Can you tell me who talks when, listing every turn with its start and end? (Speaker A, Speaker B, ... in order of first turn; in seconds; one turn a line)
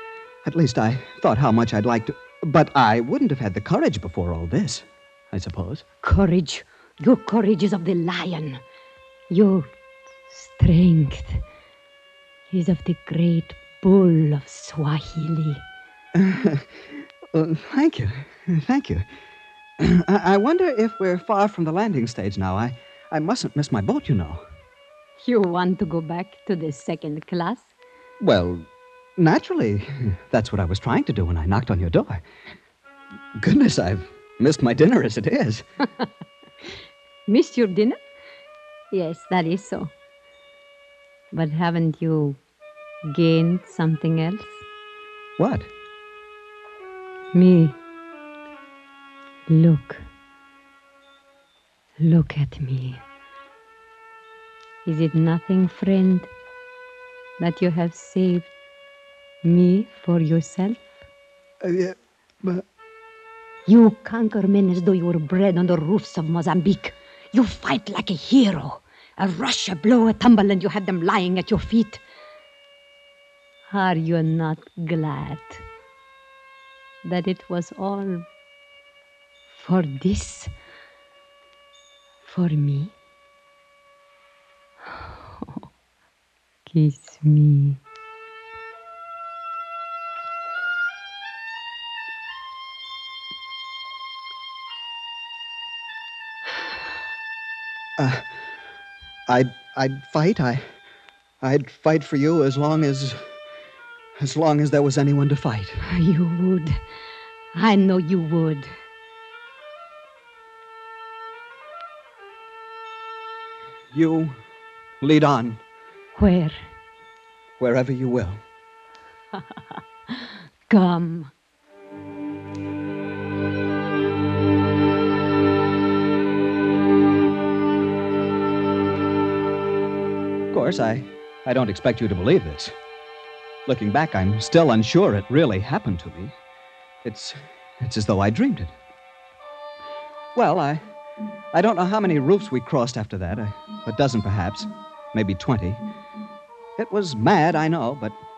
Speaker A: 0.4-5.8
Speaker B: 6.0-8.6
Speaker B: 9.3-9.7
Speaker B: 10.3-11.4
Speaker B: 12.5-15.6
Speaker A: 16.1-19.1
Speaker A: 19.8-24.4
Speaker B: 25.2-27.7
Speaker A: 28.2-32.2
Speaker A: 33.4-35.6
Speaker B: 37.3-38.0
Speaker B: 38.9-39.9
Speaker B: 41.3-42.4
Speaker B: 43.1-44.6
Speaker A: 45.4-45.7
Speaker B: 47.3-47.8
Speaker B: 49.5-50.0
Speaker B: 52.0-53.0
Speaker B: 54.9-56.3
Speaker B: 57.4-58.5
Speaker B: 59.4-60.8
Speaker A: 61.6-62.6
Speaker B: 63.7-72.0
Speaker B: 73.7-75.6
Speaker B: 77.0-78.3
Speaker B: 79.5-80.5
Speaker B: 82.2-82.9
Speaker B: 84.9-85.7
Speaker B: 86.7-87.8
Speaker A: 98.0-98.3
Speaker A: 99.3-100.7
Speaker A: 101.4-103.3
Speaker A: 104.2-105.8
Speaker B: 105.8-106.8
Speaker B: 107.5-108.7
Speaker A: 113.9-114.4
Speaker A: 115.0-115.6
Speaker B: 116.2-116.6
Speaker A: 117.6-118.4
Speaker B: 120.1-121.3
Speaker A: 130.5-132.7
Speaker A: 133.7-136.3
Speaker A: 137.0-138.7
Speaker A: 140.3-140.8
Speaker A: 141.5-145.8
Speaker A: 146.8-148.2